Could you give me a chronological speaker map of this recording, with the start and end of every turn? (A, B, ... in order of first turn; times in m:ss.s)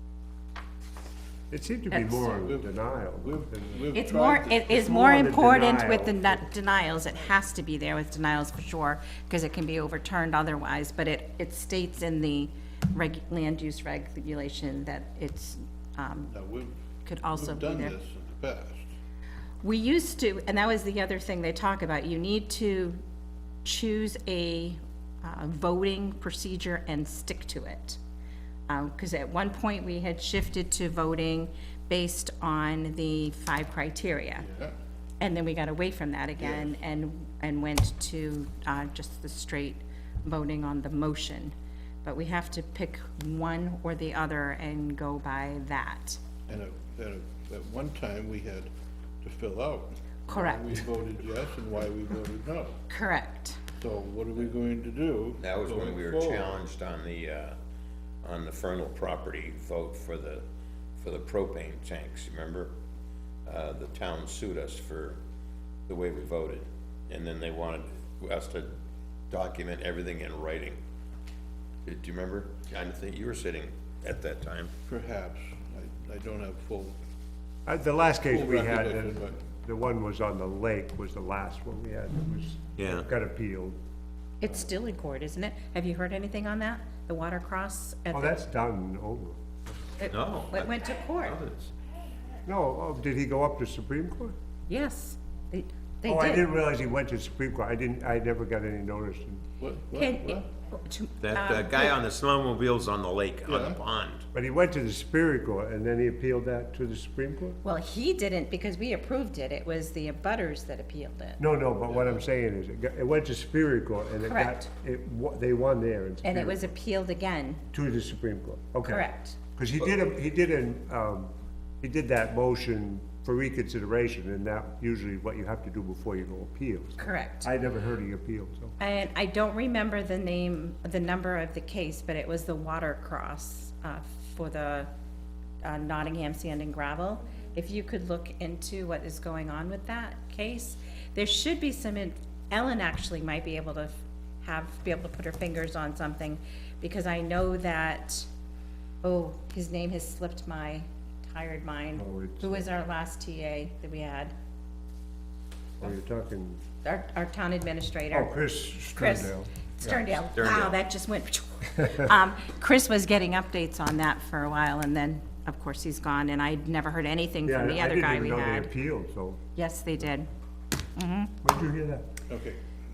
0:01.5-0:03.9 A
0:01.9-0:02.4 B
0:02.4-0:05.1 C
0:03.9-0:16.3 B
0:04.7-0:06.4 A
0:16.3-0:16.7 C
0:17.0-0:18.0 B
0:17.3-0:18.9 C
0:19.6-0:23.0 B
0:23.6-0:28.0 B
0:28.7-0:34.4 B
0:34.4-0:34.7 C
0:35.2-0:46.2 B
0:36.4-0:36.7 C
0:46.5-0:48.7 C
0:49.2-0:52.8 C
0:50.3-0:50.8 B
0:52.9-0:53.6 B
0:53.8-0:56.6 C
0:55.4-0:57.6 D
0:58.2-1:00.4 D
1:01.0-1:02.7 D
1:03.4-1:05.2 D
1:05.9-1:08.7 D
1:09.3-1:10.8 D
1:11.9-1:14.7 D
1:14.9-1:17.0 C
1:17.7-1:23.8 A
1:18.2-1:19.4 C
1:22.8-1:23.1 D
1:24.4-1:28.4 B
1:28.1-1:29.4 A
1:30.0-1:31.4 B
1:30.1-1:31.7 D
1:32.4-1:34.3 A
1:34.7-1:36.5 B
1:36.0-1:39.4 A
1:39.6-1:40.5 C
1:39.9-1:42.0 B
1:41.2-1:44.2 D
1:43.4-1:43.8 C
1:44.3-1:47.6 A
1:47.6-1:51.4 B
1:51.4-1:56.7 A
1:51.9-1:52.2 C
1:54.3-1:54.7 B
1:56.2-1:57.6 B
1:57.7-2:01.3 A
1:58.9-1:59.4 B
2:01.8-2:08.8 A
2:07.0-2:07.5 B
2:08.8-2:14.9 B
2:15.6-2:28.3 B
2:29.0-2:34.3 B
2:32.0-2:32.7 A
2:35.8-2:36.6 A
2:36.8-2:38.4 B
2:38.1-2:40.0 A
2:38.9-2:48.7 B
2:40.3-2:40.8 D
2:47.4-2:49.4 A
2:49.6-2:50.3 B
2:50.9-2:51.3 B
2:51.4-2:52.1 A
2:52.3-2:52.6 C